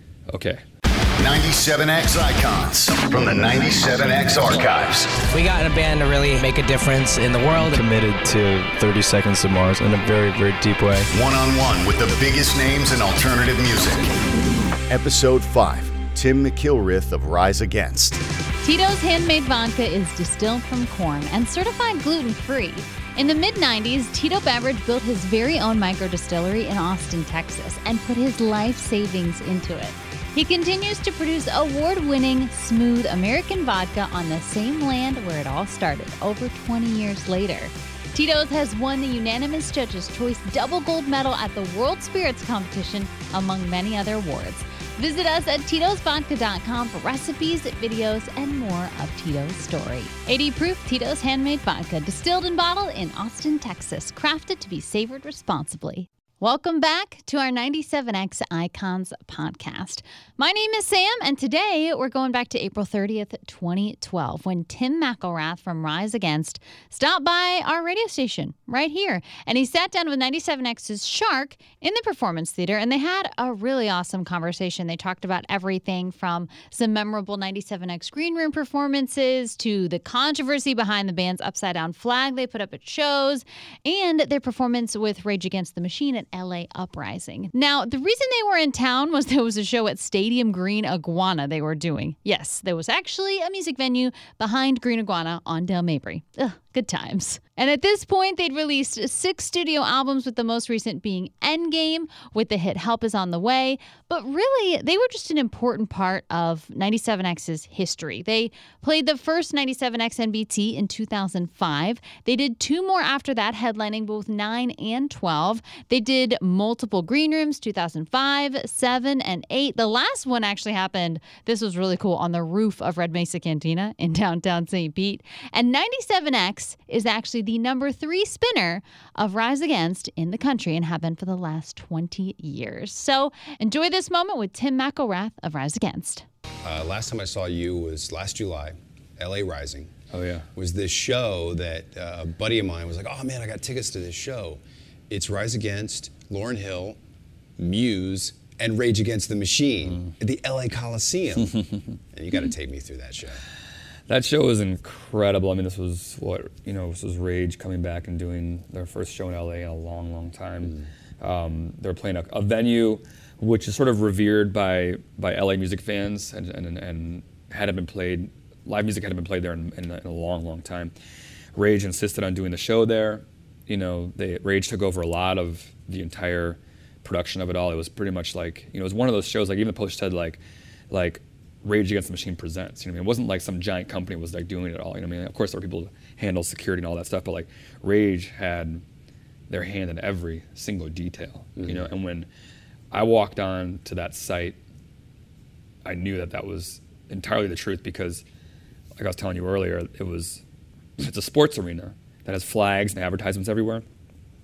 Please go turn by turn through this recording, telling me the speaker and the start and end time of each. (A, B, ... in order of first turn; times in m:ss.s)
0:00.3-0:00.6 A
0:01.2-0:05.2 B
0:05.3-0:07.8 C
0:07.6-0:11.1 D
0:11.1-0:14.2 B
0:14.9-0:18.2 B
0:18.6-2:16.2 E
2:16.6-2:19.9 F
2:20.1-2:20.5 A
2:20.5-2:27.0 F
2:27.6-2:31.6 F
2:32.1-2:33.4 F
2:34.1-2:50.9 A
2:51.5-3:08.8 A
3:09.5-3:12.3 A
3:11.6-3:11.8 F
3:12.9-3:14.6 A
3:15.8-3:18.2 A
3:19.0-3:20.4 A
3:21.0-3:23.8 A